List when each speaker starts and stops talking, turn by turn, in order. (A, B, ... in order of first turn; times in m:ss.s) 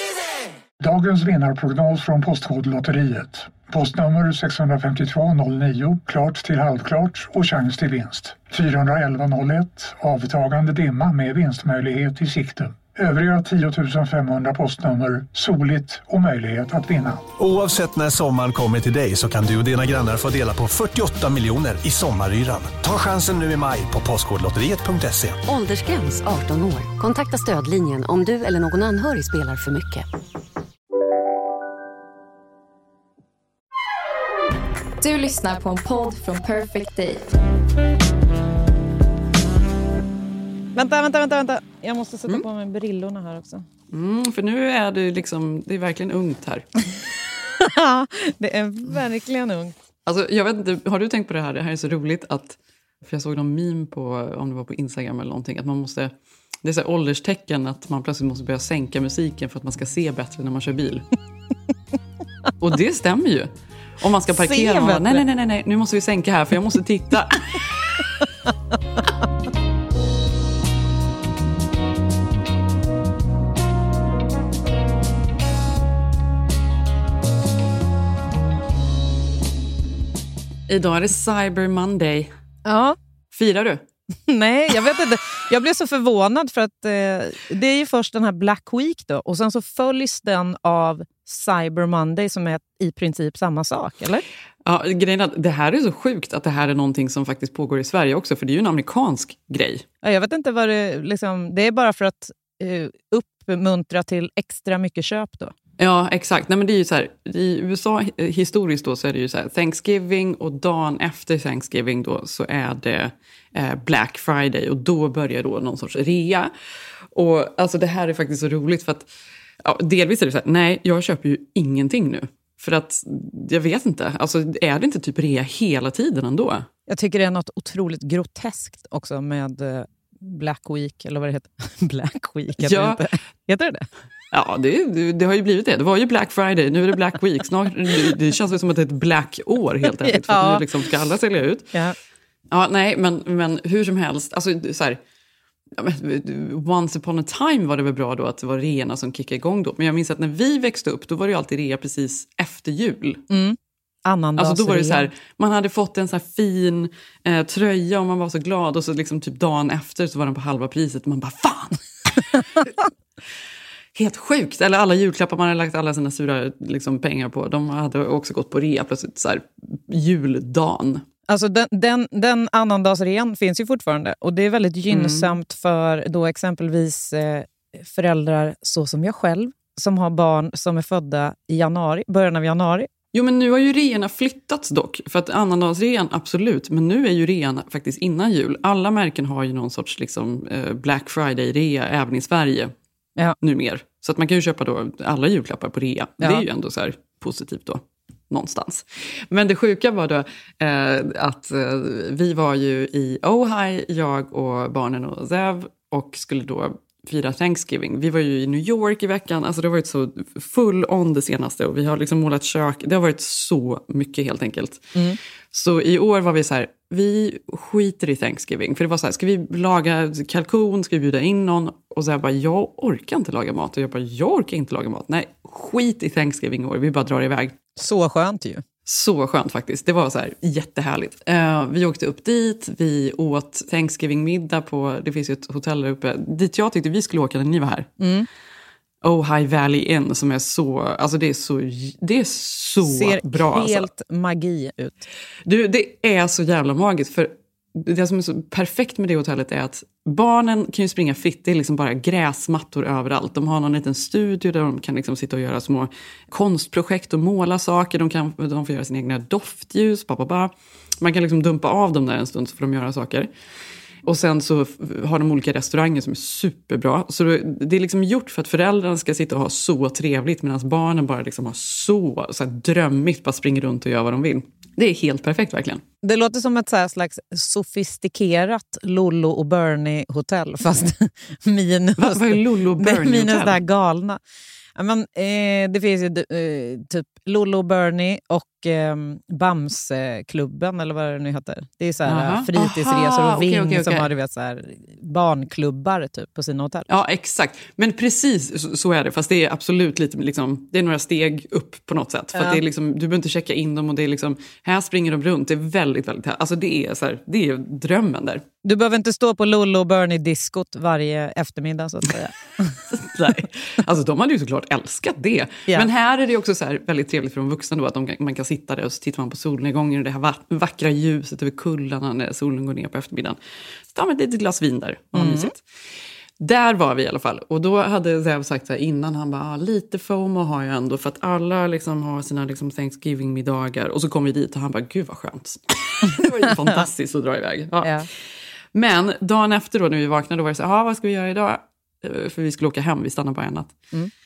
0:00.8-0:17.3 A
0:17.4-0:25.4 B
0:25.4-0:30.0 C
0:35.0-0:37.3 D
0:40.7-0:43.6 E
0:43.9-0:46.6 F
0:47.6-0:49.7 E
0:50.0-0:56.1 F
0:56.6-1:01.0 F
1:02.6-1:03.5 F
1:04.0-1:08.0 F
1:04.3-1:05.2 E
1:20.7-1:22.3 F
1:22.6-1:23.0 E
1:23.3-1:23.8 F
1:24.3-1:34.2 E
1:34.6-1:39.8 F
1:40.0-1:45.5 E
1:45.8-1:56.5 F
1:57.1-1:59.1 F
1:59.6-2:06.7 F
2:06.9-2:13.9 E
2:12.6-2:13.0 F
2:14.3-2:21.7 F
2:20.0-2:20.6 E
2:22.5-2:25.0 F
2:25.8-2:33.2 F
2:33.3-2:35.1 E
2:34.4-2:42.7 F
2:43.9-2:51.0 F
2:51.3-3:02.9 E
2:54.9-2:55.3 F
3:03.1-3:12.7 F
3:13.4-3:34.9 F
3:35.5-3:47.5 F
3:47.8-3:48.6 E
3:48.8-3:57.9 F
3:58.0-3:58.3 E
3:59.0-4:03.9 F
4:02.8-4:05.1 E
4:05.4-4:23.3 F
4:24.0-4:35.8 F
4:36.0-4:44.2 E
4:42.0-4:43.6 F
4:44.8-4:56.9 E
4:52.1-4:54.1 F
4:56.9-5:08.4 F
5:02.3-5:02.6 E
5:08.6-5:12.8 E
5:12.9-5:23.4 F
5:23.9-5:25.6 F
5:25.1-5:25.5 E
5:26.4-5:38.1 F
5:38.7-5:43.8 F